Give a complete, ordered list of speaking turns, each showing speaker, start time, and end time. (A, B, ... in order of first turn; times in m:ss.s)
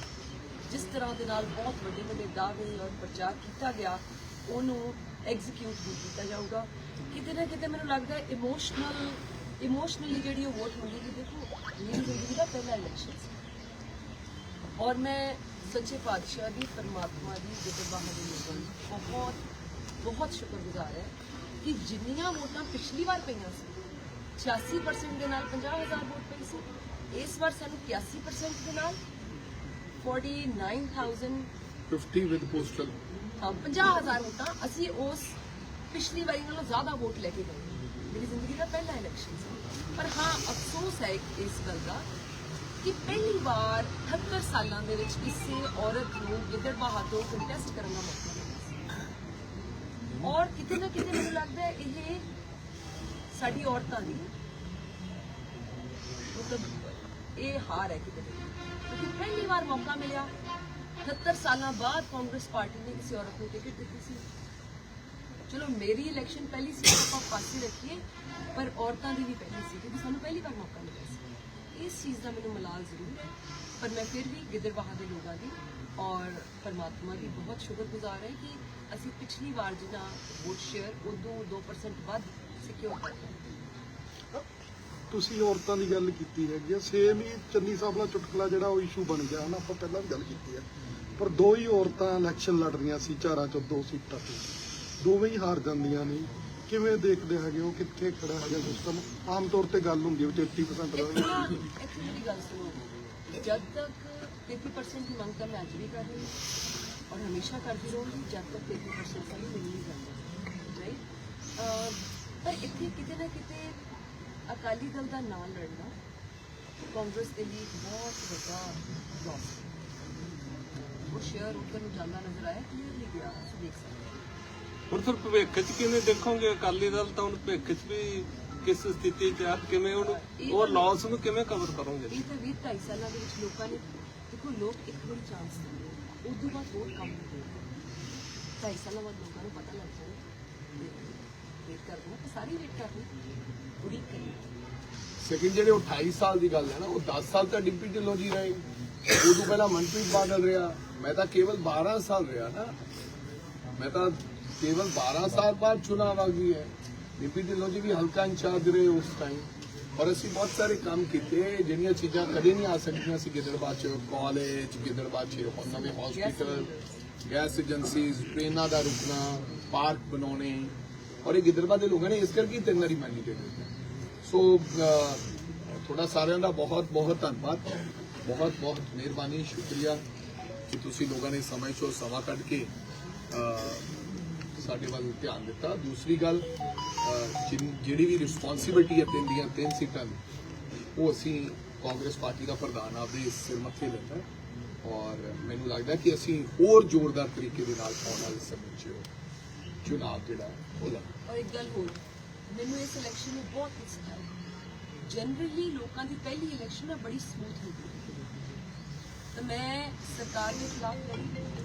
0:00.7-0:13.3 A
0:14.8-0:19.4 A
0:20.0-0:23.7 A
0:24.4-0:29.0 A
0:30.0-0:31.5 A
0:31.9-0:32.9 B
0:33.4-0:35.4 A
0:35.9-0:42.0 A
0:42.8-0:48.7 A
0:50.2-0:52.2 A
0:53.3-0:54.3 A
0:56.3-1:00.3 A
1:01.0-1:04.2 A
1:05.5-1:08.0 A
1:08.5-1:11.2 A
1:11.7-1:23.4 A
1:25.1-1:30.6 C
1:31.2-1:34.4 C
1:35.0-1:41.3 C
1:40.9-1:42.8 A
1:43.4-1:46.3 A
1:47.1-1:51.0 A
1:51.6-1:53.7 A
1:54.5-1:55.9 A
1:56.9-1:59.7 A
2:01.1-2:04.1 A
2:04.9-2:12.2 D
2:10.0-2:11.0 A
2:12.1-2:17.6 A
2:18.6-2:20.2 A
2:20.8-2:23.1 A
2:23.8-2:24.4 A
2:25.2-2:32.7 B
2:33.8-2:46.7 B
2:45.8-2:46.9 A
2:47.3-2:53.7 B
2:54.2-2:55.2 B
2:55.7-2:57.7 B
2:58.2-3:00.0 B
3:00.7-3:02.7 B
3:03.3-3:03.9 B
3:04.6-3:06.5 B
3:07.0-3:10.2 B
3:11.0-3:14.2 B
3:14.8-3:19.0 B
3:19.8-3:21.1 B
3:21.3-3:22.0 A
3:22.5-3:24.3 A
3:25.1-3:28.2 A
3:29.3-3:31.4 A